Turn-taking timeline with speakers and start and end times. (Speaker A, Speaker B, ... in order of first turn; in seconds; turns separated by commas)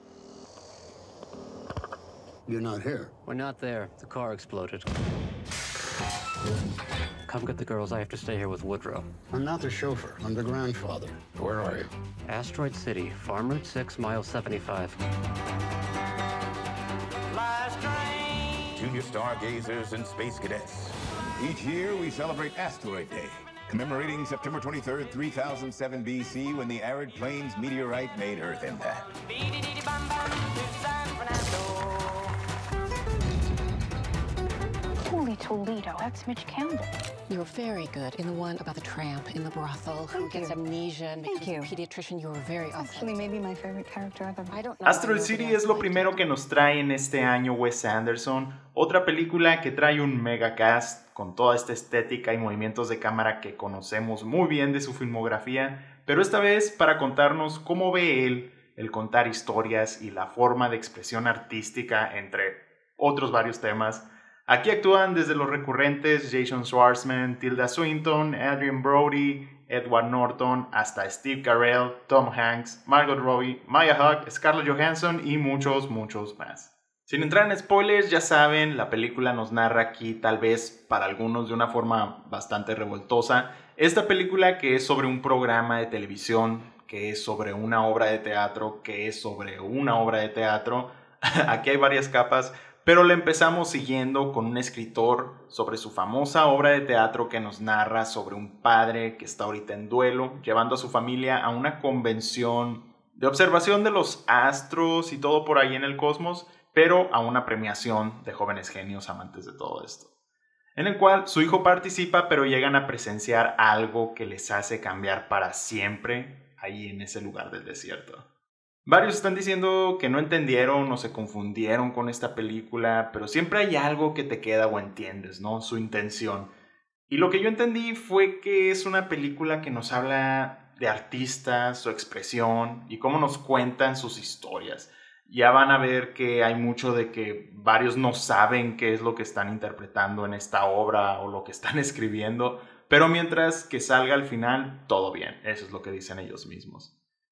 Speaker A: 2.5-3.1, Speaker B: 3.2-4.9, Speaker B: 7.2-9.1, Speaker A: 9.3-11.9, Speaker B: 12.2-15.0, Speaker C: 18.6-29.1, Speaker D: 35.1-36.9, Speaker E: 37.3-43.3, Speaker D: 40.1-40.5, Speaker D: 41.3-41.6, Speaker D: 42.8-44.5, Speaker E: 44.5-46.2, Speaker F: 44.8-110.1, Speaker F: 110.8-118.2, Speaker F: 118.8-126.5, Speaker F: 127.1-146.9